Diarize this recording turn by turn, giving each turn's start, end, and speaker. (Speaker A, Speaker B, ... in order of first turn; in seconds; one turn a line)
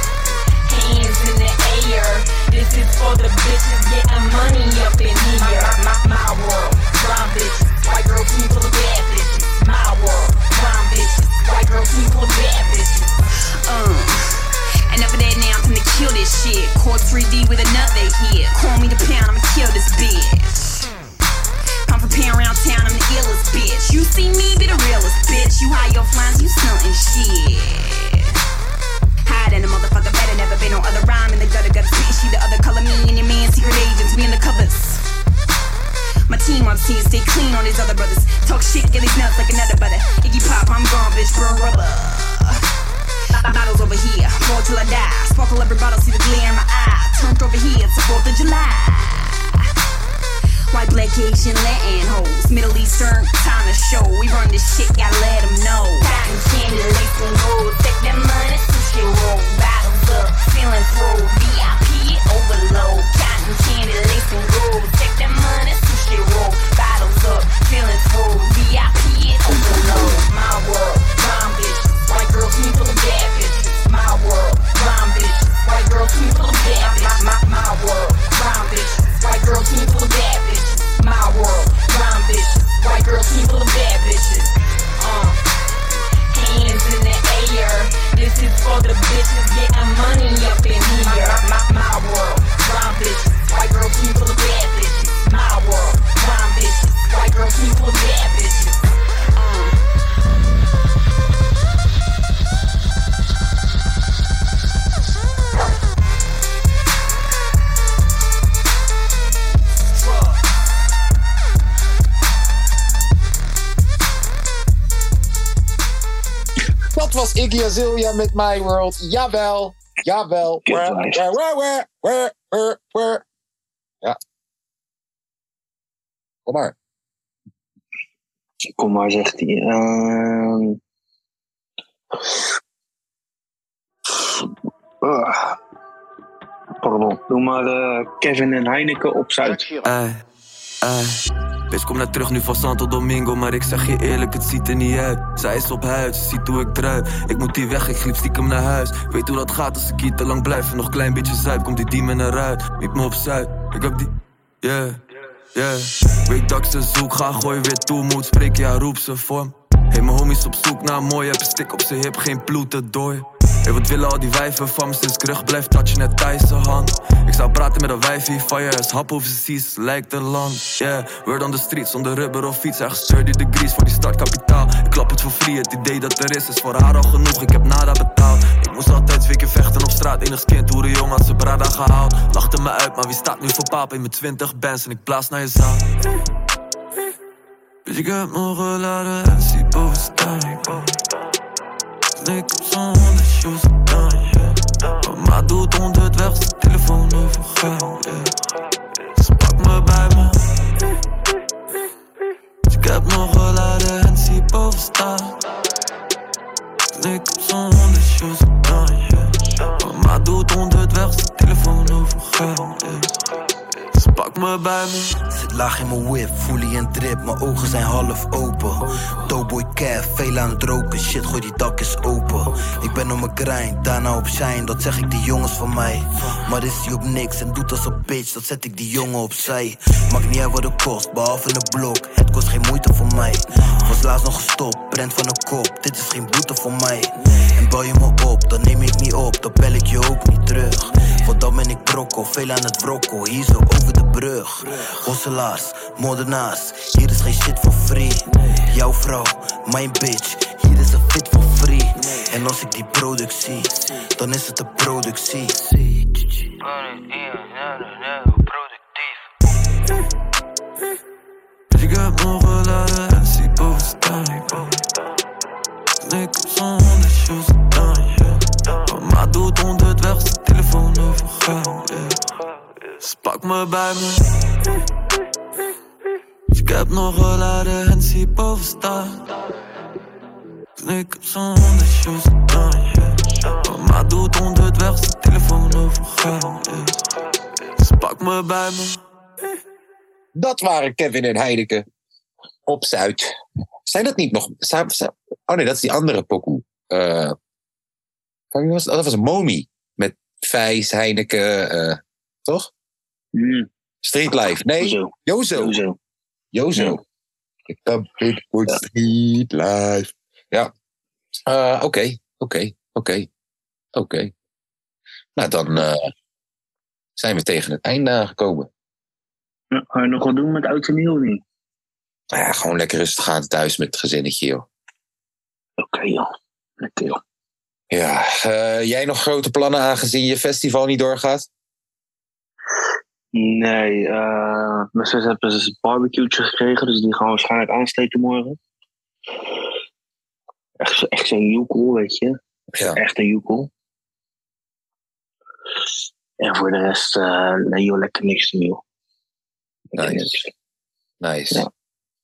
Speaker A: 0.6-20.9
Speaker A: 21.9-28.4
Speaker A: 29.2-35.0
Speaker A: 36.3-42.6
Speaker A: 43.3-49.7
Speaker A: 50.7-85.4
Speaker B: 69.5-70.2
Speaker A: 86.3-98.8
Speaker A: 99.4-99.8
Speaker C: 116.9-123.2
Speaker B: 120.7-121.2
Speaker C: 126.5-126.8
Speaker B: 128.7-130.8
Speaker B: 134.1-134.5
Speaker B: 135.0-135.6
Speaker B: 136.8-139.7
Speaker D: 139.8-140.2
Speaker D: 140.8-155.0
Speaker D: 155.5-185.9
Speaker D: 187.8-191.0
Speaker D: 192.2-200.9
Speaker D: 202.7-205.4
Speaker D: 206.9-213.2
Speaker D: 213.8-215.2
Speaker E: 215.3-256.3
Speaker D: 261.7-264.9
Speaker D: 266.0-272.2
Speaker D: 272.9-274.7
Speaker D: 276.5-279.4
Speaker D: 280.8-289.0
Speaker C: 290.4-291.9
Speaker C: 292.7-293.3
Speaker C: 293.9-297.4
Speaker C: 298.5-302.7
Speaker B: 303.3-303.7
Speaker C: 304.0-305.8
Speaker B: 304.8-306.0
Speaker C: 306.5-307.0
Speaker B: 306.8-307.0
Speaker C: 307.7-310.7
Speaker C: 311.5-313.3
Speaker C: 313.9-314.3
Speaker C: 315.4-316.1
Speaker C: 317.2-318.7
Speaker B: 319.7-321.4
Speaker C: 322.3-324.7
Speaker B: 325.8-326.3
Speaker B: 326.8-327.2
Speaker C: 327.9-331.5
Speaker B: 333.3-338.6
Speaker B: 340.8-342.4
Speaker B: 342.9-343.7
Speaker B: 346.4-348.8
Speaker B: 349.9-350.5
Speaker C: 350.0-350.3
Speaker C: 351.2-351.7